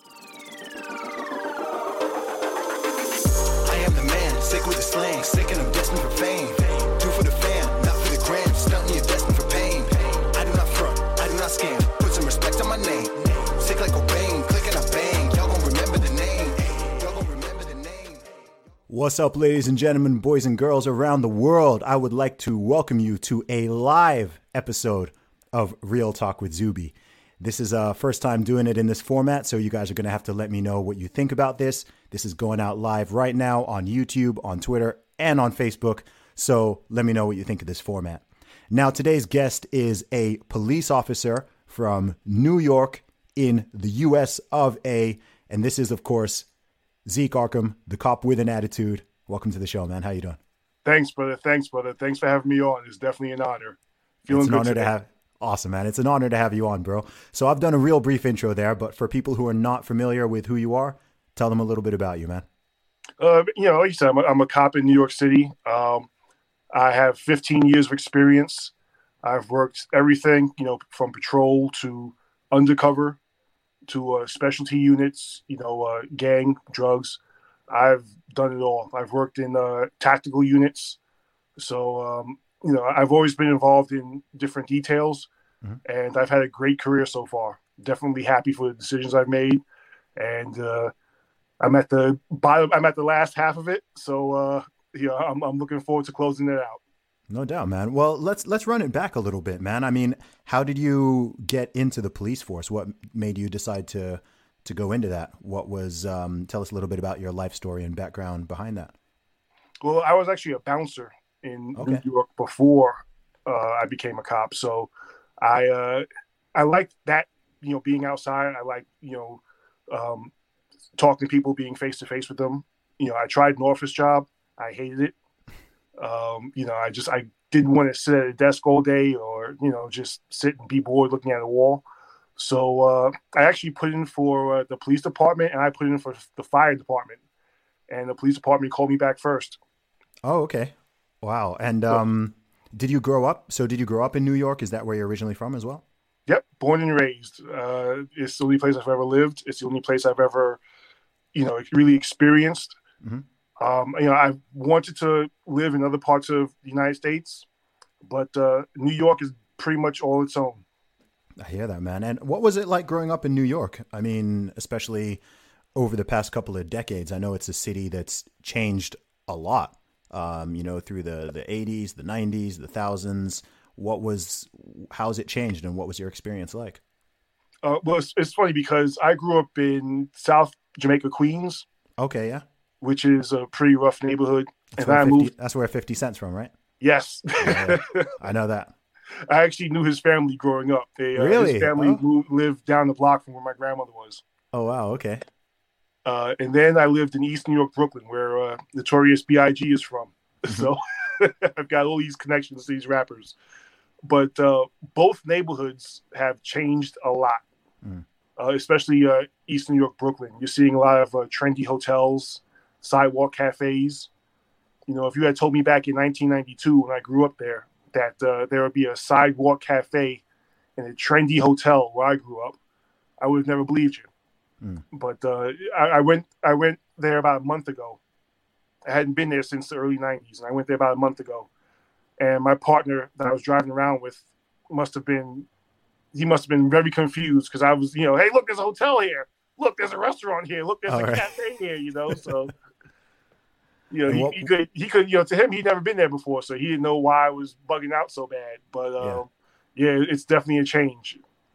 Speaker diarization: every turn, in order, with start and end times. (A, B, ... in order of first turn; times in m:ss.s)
0:03.6-0:18.2 A
0:18.9-0:46.5 B
0:47.0-0:50.4 B
0:50.8-0:54.9 C
0:54.3-1:02.4 B
1:03.2-1:06.1 C
1:06.7-1:08.7 C
1:09.2-1:13.2 C
1:13.9-1:21.0 C
1:21.6-1:25.3 C
1:25.8-1:29.6 C
1:30.2-1:30.9 C
1:31.6-1:36.8 C
1:37.3-1:48.9 B
1:49.8-1:54.9 C
1:51.8-1:52.0 B
1:55.4-2:00.3 C
2:01.0-2:05.1 C
2:06.0-2:11.8 C
2:12.4-2:17.2 C
2:17.9-2:19.6 C
2:20.2-2:25.8 B
2:26.3-2:30.6 C
2:31.3-2:32.8 C
2:33.6-2:37.4 C
2:38.0-2:40.6 C
2:41.4-2:45.2 B
2:45.7-2:56.8 B
2:57.6-3:01.6 C
3:02.0-3:02.4 B
3:02.8-3:05.3 C
3:04.8-3:06.5 B
3:06.8-3:08.1 C
3:07.4-3:08.7 B
3:09.2-3:14.2 C
3:11.1-3:12.0 B
3:14.5-3:15.2 B
3:16.0-3:23.3 C
3:24.0-3:27.4 C
3:28.4-3:34.1 C
3:34.9-3:40.2 C
3:40.8-3:42.6 C
3:43.2-3:44.1 C
3:44.9-3:48.0 C
3:48.8-3:51.5 C
3:52.2-3:55.5 C
3:56.1-4:02.5 C
4:00.9-4:01.3 B
4:03.9-4:11.2 C
4:04.1-4:04.5 B